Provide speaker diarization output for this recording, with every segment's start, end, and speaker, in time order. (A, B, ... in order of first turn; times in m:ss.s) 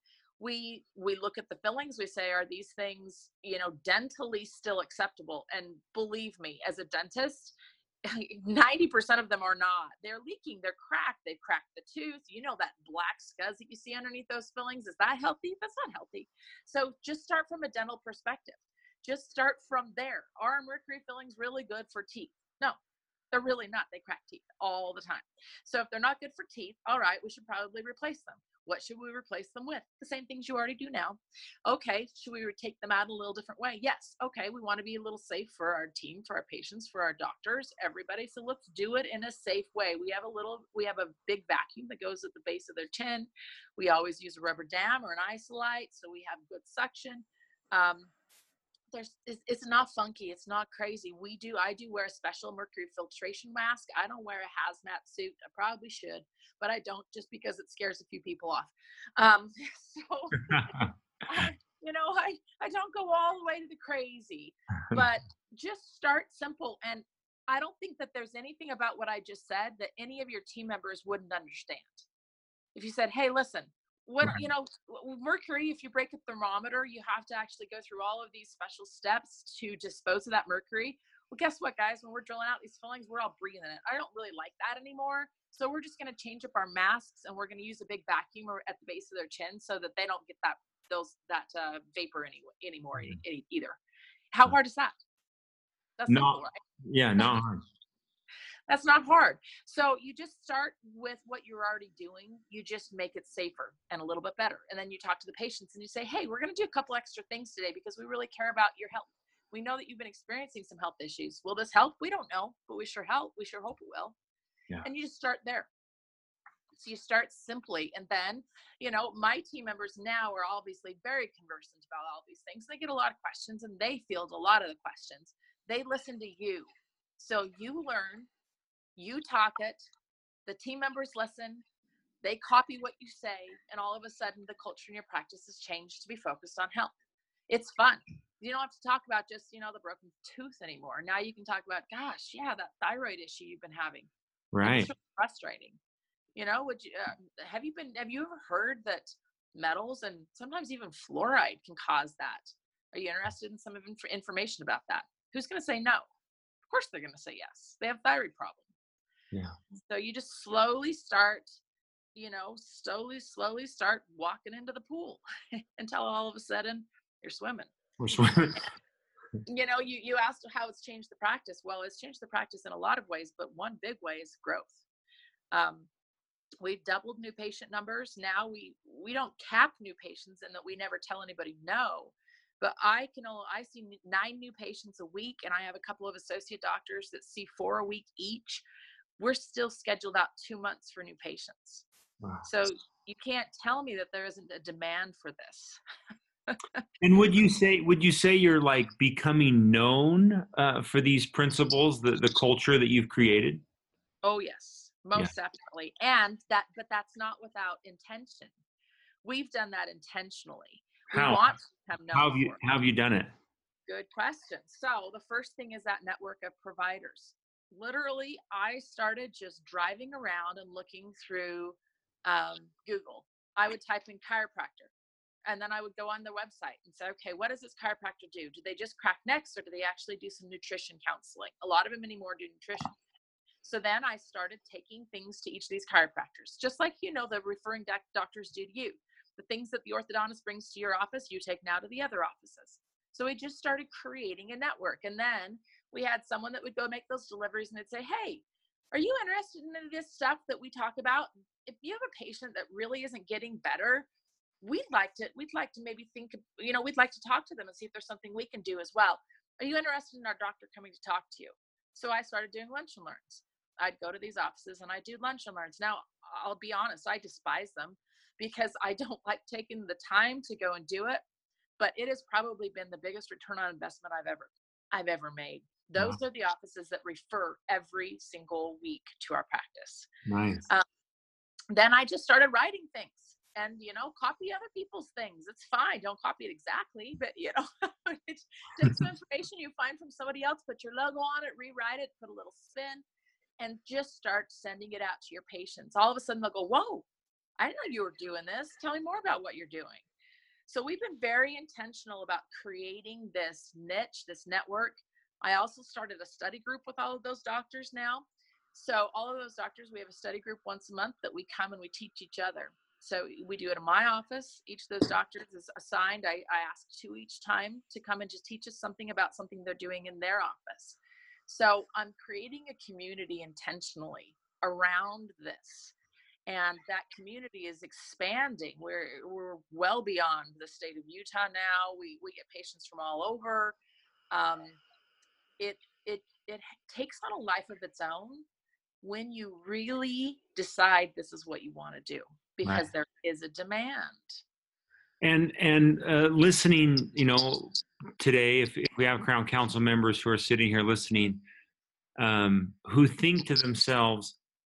0:00.4-0:22.8 A
0:23.3-0:48.1 A
0:48.9-1:12.0 A
1:00.5-1:00.9 B
1:12.7-1:33.8 A
1:34.3-1:35.0 A
1:36.0-1:36.6 A
1:36.1-1:37.6 B
1:38.7-1:54.2 A
1:54.8-1:55.7 A
1:56.7-2:08.3 A
2:09.0-2:09.8 A
2:10.4-2:11.6 A
2:12.2-2:16.9 A
2:17.5-2:24.1 A
2:24.5-2:24.9 B
2:24.6-2:25.8 A
2:26.4-2:36.1 A
2:36.7-2:38.6 A
2:39.7-2:41.6 A
2:42.1-2:47.7 A
2:48.0-2:48.7 B
2:49.4-2:54.8 A
2:55.5-2:55.9 A
2:56.6-3:08.6 A
3:09.2-3:11.8 A
3:12.4-3:15.8 A
3:16.5-3:16.8 A
3:17.0-3:23.6 B
3:24.2-3:28.5 A
3:29.2-3:32.6 A
3:31.1-3:31.4 B
3:32.1-3:33.3 B
3:33.9-3:44.9 A
3:45.4-3:52.9 A
3:53.6-4:14.1 A
4:14.6-4:31.2 A
4:31.8-4:40.1 A
4:40.2-4:40.6 B
4:41.7-4:53.0 A
4:53.6-4:57.0 A
4:57.6-5:00.0 A
5:00.7-5:25.9 A
5:26.5-5:33.8 A
5:34.3-5:34.8 A
5:35.6-5:38.4 A
5:39.0-5:44.4 A
5:45.2-5:51.4 B
5:52.2-5:54.4 B